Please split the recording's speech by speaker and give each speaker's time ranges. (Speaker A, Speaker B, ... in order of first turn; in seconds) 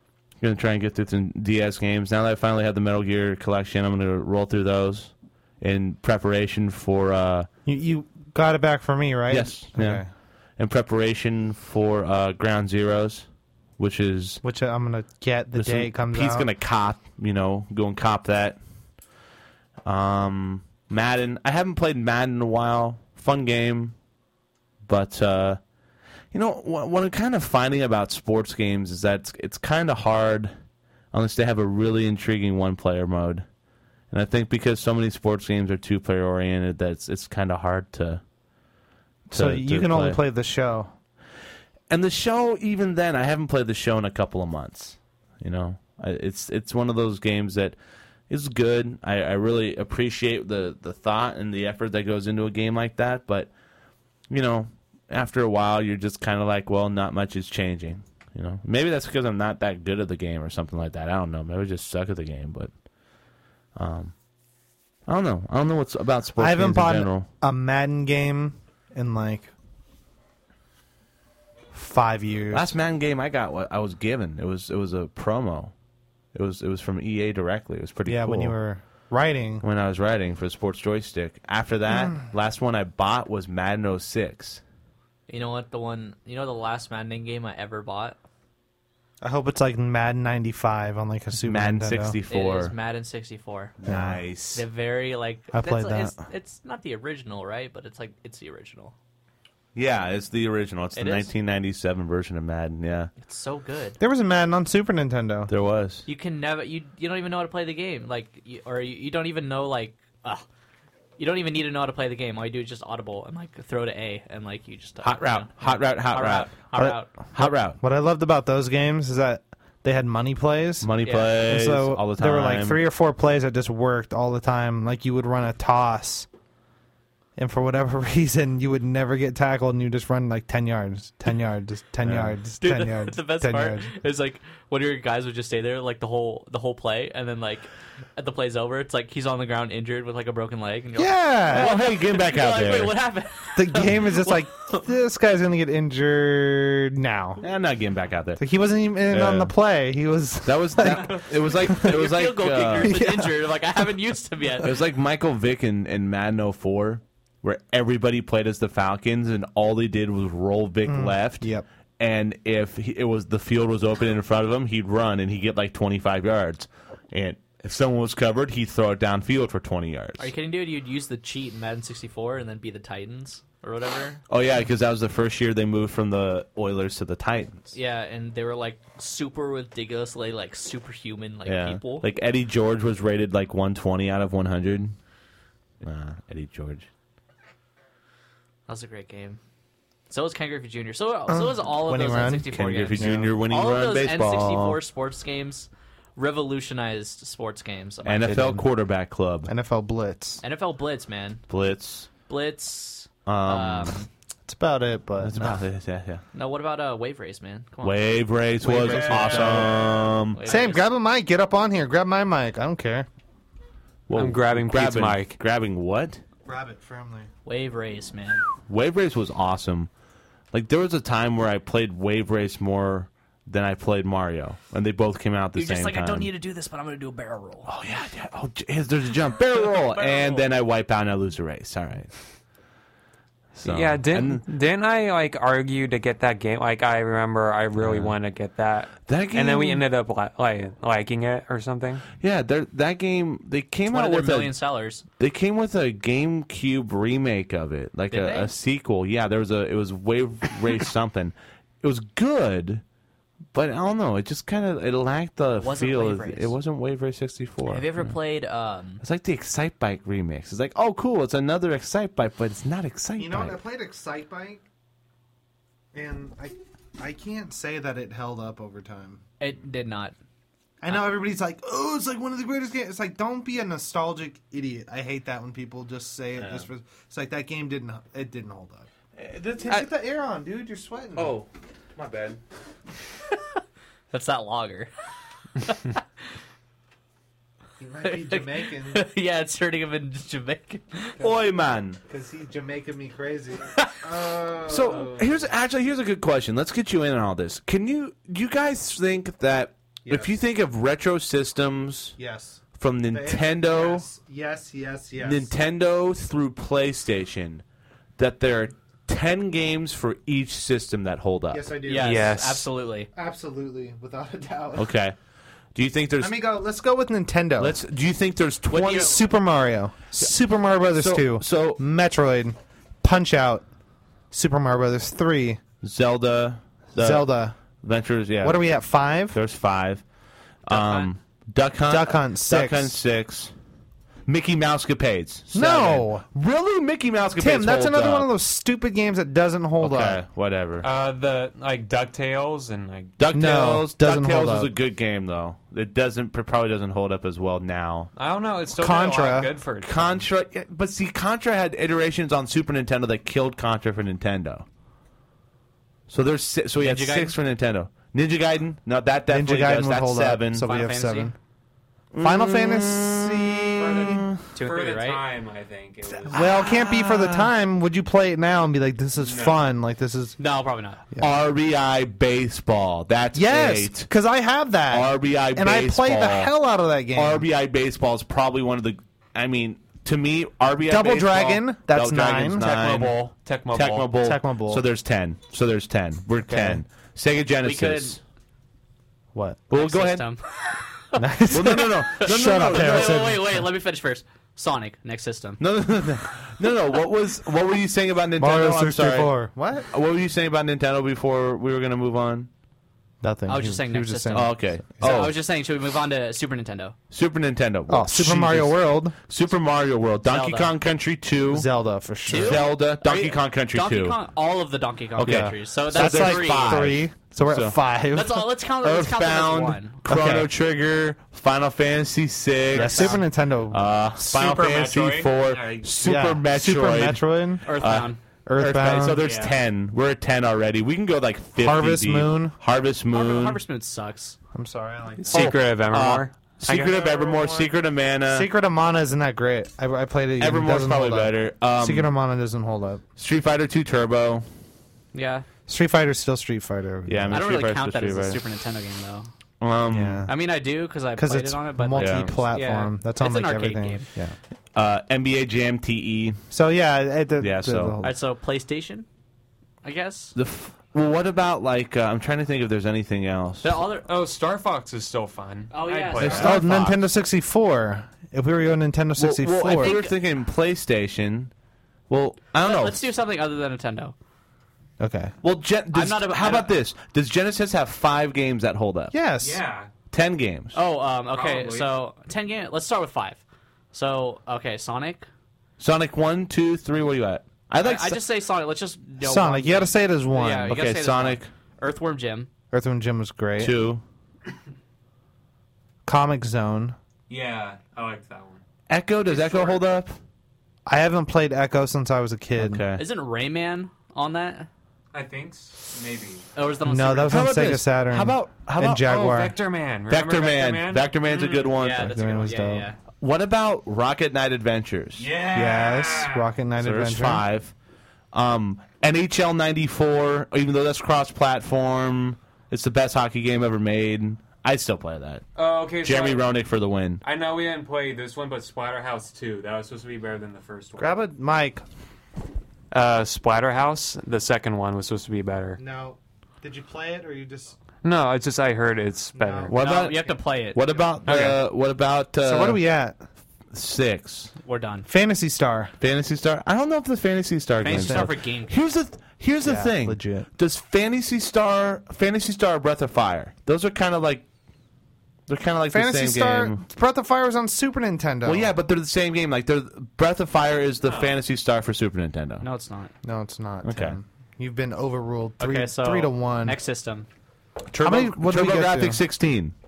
Speaker A: 0.4-7.5, 9.3-10.1, 10.6-13.3, 13.8-14.4, 15.6-18.6, 19.9-24.0, 24.9-25.6, 26.3-30.6, 31.1-33.5, 34.1-38.2, 39.3-40.2, 41.9-47.8, 48.3-53.5, 54.3-62.7, 63.8-64.1, 65.1-67.3, 72.5-75.7, 76.3-78.6, 79.6-84.6, 91.4-92.7, 93.8-94.6, 99.8-103.1, 105.5-106.1, 115.0-116.6, 117.3-117.8, 120.8-122.8, 132.0-132.3, 141.5-143.0, 147.4-148.4, 149.1-149.5, 150.4-153.0, 154.6-170.3, 174.3-177.7, 181.4-185.0, 185.8-186.9, 192.4-194.8, 198.0-199.5, 201.5-202.1, 203.3-204.0, 205.2-206.2, 207.8-210.4, 214.1-216.2, 218.7-219.9, 220.5-226.3, 227.7-232.1, 233.5-234.4, 237.8-238.1, 239.1-239.8, 242.2-244.6, 245.2-252.8, 253.5-258.2, 259.0-263.6, 276.4-276.6, 279.2-279.9, 281.2-282.4, 291.2-292.0, 294.7-302.2, 302.8-304.1, 305.2-307.6, 308.2-311.6, 314.8-315.2, 315.8-316.4, 317.6-319.2, 320.9-321.8, 325.8-328.7, 329.3-330.1, 330.7-333.5, 334.3-338.3, 339.8-340.9, 343.2-348.1, 349.8-354.7, 356.1-360.6, 362.1-364.4, 366.3-367.5, 371.2-374.1, 374.9-376.5, 377.1-383.2, 383.7-388.2, 389.7-390.3, 391.5-393.3, 395.6-399.3, 399.9-402.5, 404.3-405.4, 407.1-411.7, 412.3-414.2, 415.2-417.8, 418.8-433.6, 435.3-438.5, 440.4-442.1, 443.2-444.5, 447.1-448.4, 449.6-450.3, 451.9-452.3, 454.7-456.4, 457.4-458.0, 460.4-463.8, 466.2-467.0, 469.2-471.5, 472.1-473.1, 475.4-479.1, 480.1-480.8, 485.8-488.2, 490.7-491.5, 493.6-494.0, 498.9-500.2, 502.6-503.0, 507.3-509.2, 510.1-512.1, 513.2-515.3, 516.8-517.7, 518.3-525.4, 526.0-527.2, 539.7-542.8, 543.7-544.5, 546.0-554.5, 555.5-556.8, 558.5-562.6, 563.8-564.2, 567.9-569.7
Speaker B: 7.7-10.1, 14.4-16.5, 39.3-40.9, 66.4-69.5, 71.7-72.7, 78.1-79.6, 89.2-92.2, 93.8-94.2, 95.5-96.2, 104.0-105.5, 116.8-126.3, 127.4-133.9, 141.0-141.8, 143.6-147.4, 148.4-152.0, 152.8-153.4, 160.8-161.7, 191.3-193.4, 198.3-198.6, 199.5-200.4, 204.5-205.6, 208.6-213.1, 216.4-217.3, 263.2-264.6, 265.9-269.2, 270.8-278.9, 279.6-281.4, 287.8-289.1, 292.1-295.5, 300.1-300.4, 302.2-305.5, 311.5-312.4, 313.1-314.9, 316.2-317.8, 318.8-323.7, 324.3-325.6, 327.0-327.6, 328.4-329.4, 331.8-333.0, 335.5-336.3, 337.4-340.2, 343.3-344.7, 348.7-349.6, 359.3-361.3, 362.2-364.3, 366.3-370.4, 373.3-377.4, 380.9-382.7, 384.2-384.9, 386.5-386.8, 389.3-389.6, 391.2-393.6, 398.4-399.9, 403.2-405.2, 407.9-409.2, 411.5-412.7, 415.2-418.5, 420.1-420.5, 422.7-424.0, 426.0-427.7, 428.5-429.2, 431.6-432.6, 434.5-435.6, 438.3-443.0, 445.7-447.5, 449.9-450.3, 451.2-454.4, 456.5-458.2, 466.2-470.0, 475.0-475.4, 479.1-479.6, 489.2-490.8, 492.7-493.8, 496.1-497.0, 500.9-502.9, 506.8-509.6, 511.9-512.9, 515.5-517.4, 531.0-531.8, 535.8-537.8, 539.3-539.7, 542.4-543.2, 545.1-545.9, 547.9-548.3, 549.6-550.5, 555.9-558.7, 563.2-566.8, 567.9-569.2
Speaker C: 85.3-88.2, 92.3-93.8, 94.5-98.9, 101.0-101.3, 103.2-104.0, 106.1-110.5, 111.2-117.1, 121.0-121.4, 132.6-144.8, 150.8-154.8, 170.2-174.2, 177.7-182.1, 188.7-189.4, 190.1-198.6, 200.4-201.4, 202.3-204.1, 206.3-208.1, 208.7-210.9, 217.5-218.4, 225.6-227.7, 229.9-230.4, 243.9-245.0, 248.1-248.5, 255.6-256.6, 257.7-259.0, 269.4-270.1, 284.1-284.9, 285.6-286.0, 288.0-291.2, 311.9-313.1, 318.7-319.2, 330.7-331.1, 356.8-357.4, 360.6-361.3, 364.5-365.2, 370.4-371.0, 387.6-388.2, 389.7-395.6, 403.5-406.9, 410.3-410.7, 412.3-416.9, 418.1-420.0, 422.8-423.2, 427.6-428.2, 433.1-434.4, 445.1-445.4, 447.3-449.3, 450.3-454.1, 458.0-459.1, 459.8-460.4, 463.6-464.1, 465.7-466.5, 469.6-470.2, 472.6-474.1, 475.9-476.7, 480.7-483.4, 483.9-485.3, 487.8-492.5, 503.0-504.7, 506.6-507.5, 511.7-513.0, 539.7-540.8, 544.6-545.1, 547.8-548.8, 562.6-563.1, 565.6-567.3
Speaker D: 214.1-215.4, 233.6-242.1, 312.0-312.7, 340.8-343.1, 348.2-350.2, 364.6-366.6, 369.2-369.6, 382.6-384.1, 424.2-426.1, 429.2-429.6, 435.2-437.7, 464.0-466.7, 479.4-479.9, 481.3-481.9, 497.3-498.6, 499.3-499.8, 505.1-506.5, 509.0-511.7, 515.2-516.5, 525.6-526.5, 527.2-531.2, 532.9-535.8, 538.0-539.7, 541.2-541.6, 561.0-561.4